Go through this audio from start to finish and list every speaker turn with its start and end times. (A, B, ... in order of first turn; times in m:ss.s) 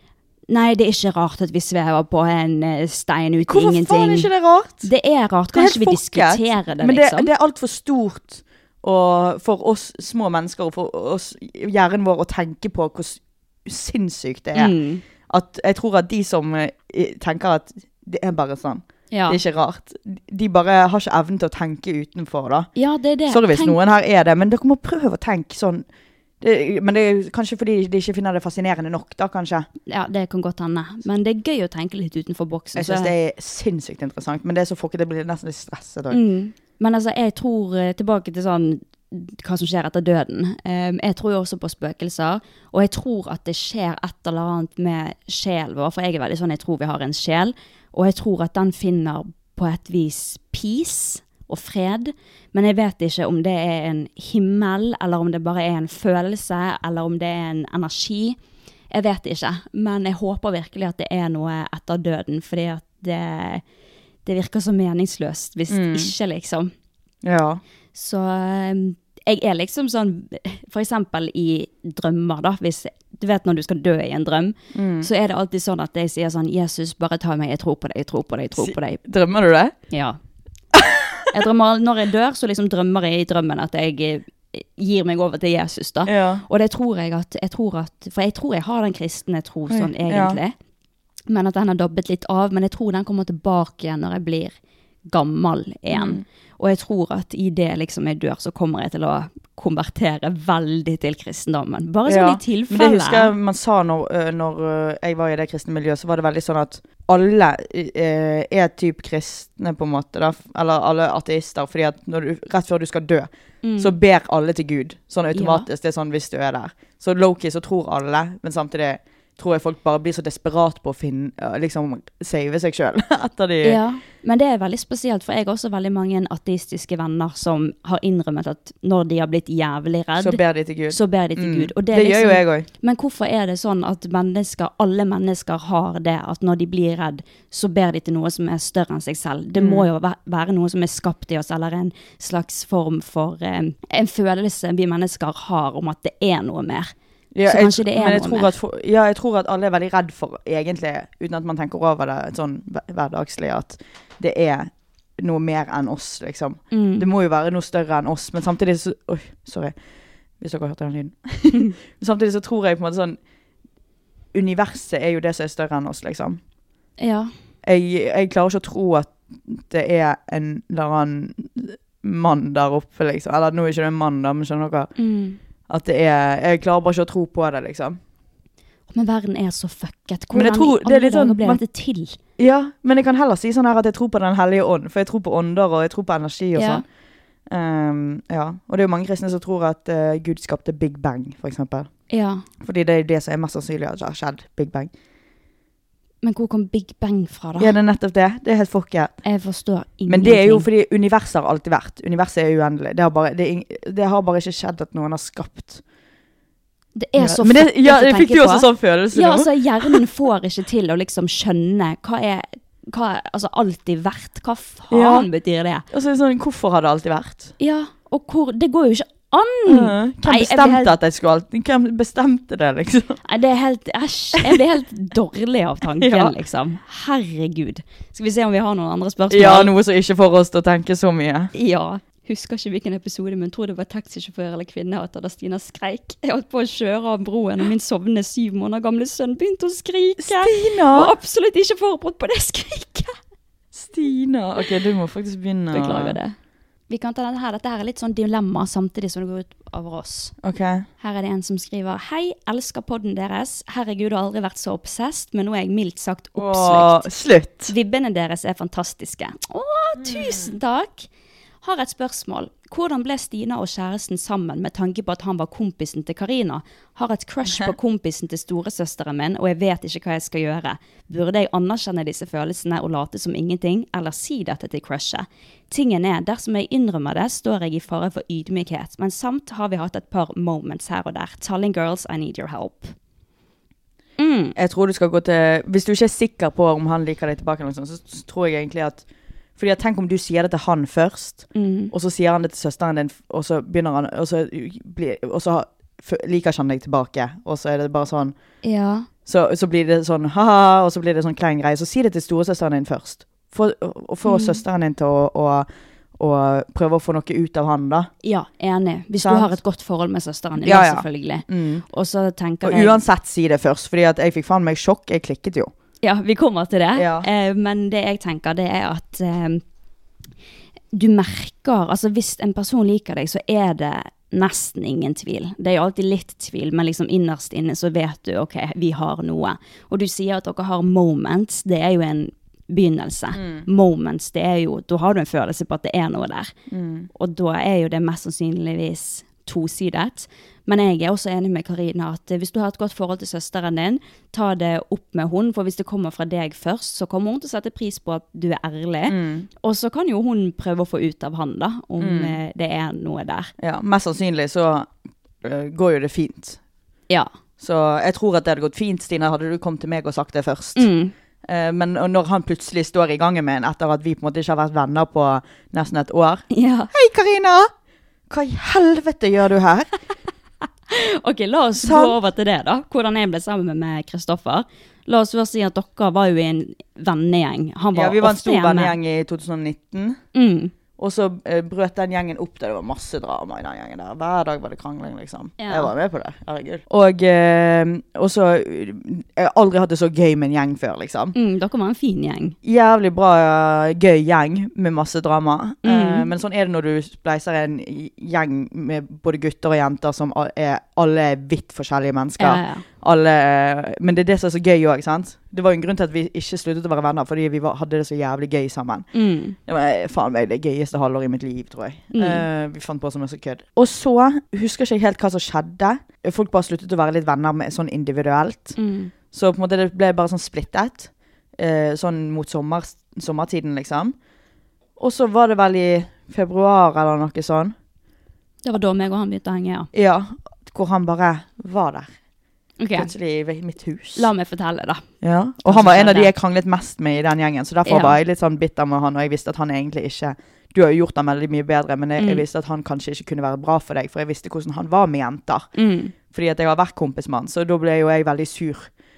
0:00.5-0:04.3 A
0:03.5-0:04.9 B
0:04.8-0:07.3 A
0:05.5-0:22.7 B
0:14.6-0:15.0 A
0:19.1-0:19.4 A
0:22.8-0:23.8 A
0:23.3-0:25.8 B
0:26.4-0:29.7 B
0:29.9-0:33.1 A
0:32.8-0:36.2 B
0:36.1-0:58.4 A
0:58.9-1:03.6 A
1:04.2-1:06.7 A
1:05.7-1:06.1 B
1:07.2-1:07.6 B
1:07.9-1:19.0 A
1:14.7-1:15.1 B
1:18.6-1:19.8 B
1:19.9-1:20.2 A
1:20.7-1:21.2 B
1:21.3-1:30.5 A
1:26.1-1:26.4 B
1:29.7-1:30.4 B
1:31.3-1:34.6 A
1:35.1-1:43.3 A
1:35.9-1:36.2 B
1:42.1-2:03.8 B
1:53.6-1:54.0 A
1:55.3-1:55.7 A
2:03.6-2:26.9 A
2:10.2-2:12.7 B
2:19.6-2:19.9 B
2:27.3-2:39.7 B
2:27.5-2:28.5 A
2:36.7-2:37.1 A
2:40.4-2:43.2 B
2:44.3-2:46.4 B
2:47.0-2:47.3 A
2:47.6-2:54.9 B
2:55.0-2:55.4 A
2:55.7-2:58.0 B
2:58.9-3:02.2 A
3:00.3-3:01.6 B
3:02.4-3:06.8 B
3:06.6-3:06.8 A
3:07.5-3:11.9 B
3:12.1-3:12.4 A
3:12.6-3:14.9 B
3:16.2-3:17.8 A
3:17.6-3:19.2 B
3:19.2-3:20.7 A
3:20.1-3:25.8 B
3:27.0-3:35.9 A
3:27.2-3:30.0 B
3:34.9-3:35.3 B
3:35.9-3:37.5 B
3:37.6-3:41.0 A
3:39.7-3:43.2 B
3:43.2-3:49.7 A
3:46.0-3:46.4 B
3:49.3-3:51.5 B
3:51.5-4:03.2 A
4:00.2-4:01.1 B
4:03.7-4:06.2 B
4:05.7-4:06.4 A
4:06.9-4:10.4 A
4:10.4-4:10.8 B
4:11.0-4:17.1 A
4:16.4-4:17.7 B
4:17.7-4:21.1 A
4:20.0-4:20.5 B
4:21.6-4:43.0 A
4:44.2-4:44.6 A
4:44.6-4:49.0 B
4:49.6-4:58.4 B
4:51.6-4:51.9 A
4:58.6-4:59.1 A
4:59.3-5:08.1 B
5:04.2-5:04.6 A
5:08.2-5:13.0 A
5:09.2-5:09.5 B
5:10.6-5:11.8 B
5:12.6-5:15.7 B
5:16.0-5:19.6 A
5:17.0-5:17.3 B
5:20.9-5:36.5 A
5:33.4-5:33.7 B
5:36.7-5:37.1 B
5:37.1-5:53.5 A
5:49.1-5:49.5 B
5:52.0-5:52.4 B
5:53.6-5:54.9 B
5:55.4-5:56.6 B
5:57.6-6:00.9 B
6:00.8-6:01.1 A
6:01.4-6:07.7 B
6:06.5-6:06.9 A
6:08.3-6:09.9 B
6:10.9-6:19.0 A
6:11.8-6:12.2 B
6:17.9-6:20.2 B
6:20.3-6:20.7 A
6:21.0-6:31.4 B
6:25.6-6:25.9 A
6:31.4-6:32.6 A
6:32.6-6:49.1 B
6:35.8-6:36.3 A
6:42.4-6:42.8 A
6:49.1-6:49.6 A
6:49.6-6:58.8 B
6:52.1-6:52.4 A
6:58.8-6:59.1 A
6:59.3-7:04.2 B
7:05.0-7:07.8 B
7:08.6-7:09.9 A
7:09.9-7:12.1 B
7:12.8-7:13.1 A
7:12.9-7:14.3 B
7:14.2-7:15.0 A
7:15.2-7:25.7 B
7:15.6-7:16.3 A
7:17.9-7:18.2 A
7:22.2-7:22.4 A
7:25.8-7:26.1 A
7:26.3-7:28.9 B